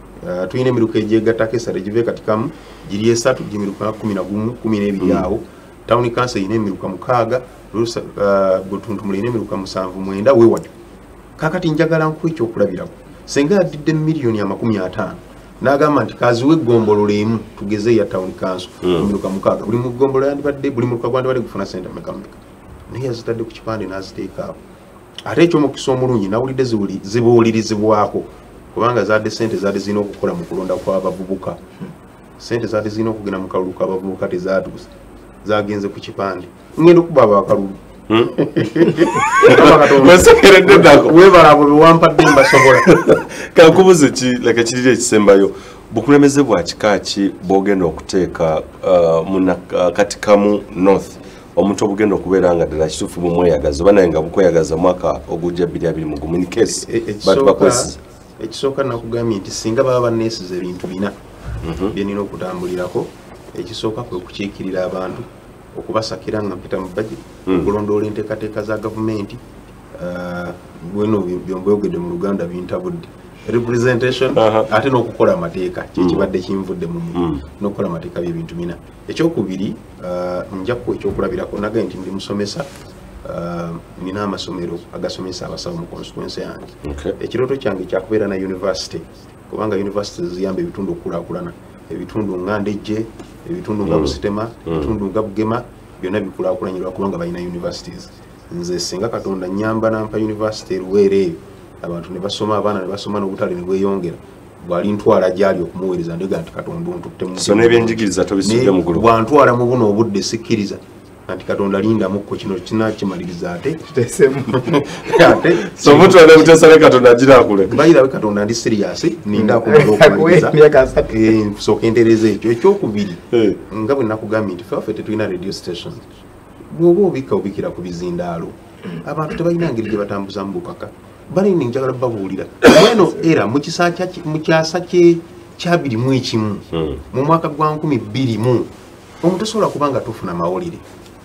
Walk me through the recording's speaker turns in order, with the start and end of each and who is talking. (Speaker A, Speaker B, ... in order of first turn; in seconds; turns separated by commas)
Speaker A: 0.2-10.7, Speaker B: 5.0-5.3, Speaker A: 11.4-22.3, Speaker B: 18.8-19.1, Speaker A: 22.9-24.6, Speaker A: 25.2-31.6, Speaker A: 32.4-34.9, Speaker A: 35.4-43.0, Speaker B: 38.1-41.4, Speaker B: 42.3-58.0, Speaker A: 56.8-61.1, Speaker B: 61.6-61.9, Speaker A: 61.9-69.4, Speaker B: 67.5-67.7, Speaker A: 69.9-82.7, Speaker B: 74.3-74.7, Speaker B: 76.0-76.3, Speaker B: 77.1-77.4, Speaker A: 83.2-113.8, Speaker B: 86.8-87.1, Speaker B: 93.8-94.9, Speaker B: 107.3-109.1, Speaker C: 113.9-114.7, Speaker A: 114.5-116.5, Speaker B: 115.0-117.8, Speaker A: 117.7-126.0, Speaker C: 119.3-121.2, Speaker B: 123.3-123.6, Speaker A: 126.7-138.7, Speaker B: 136.7-137.0, Speaker A: 139.2-140.8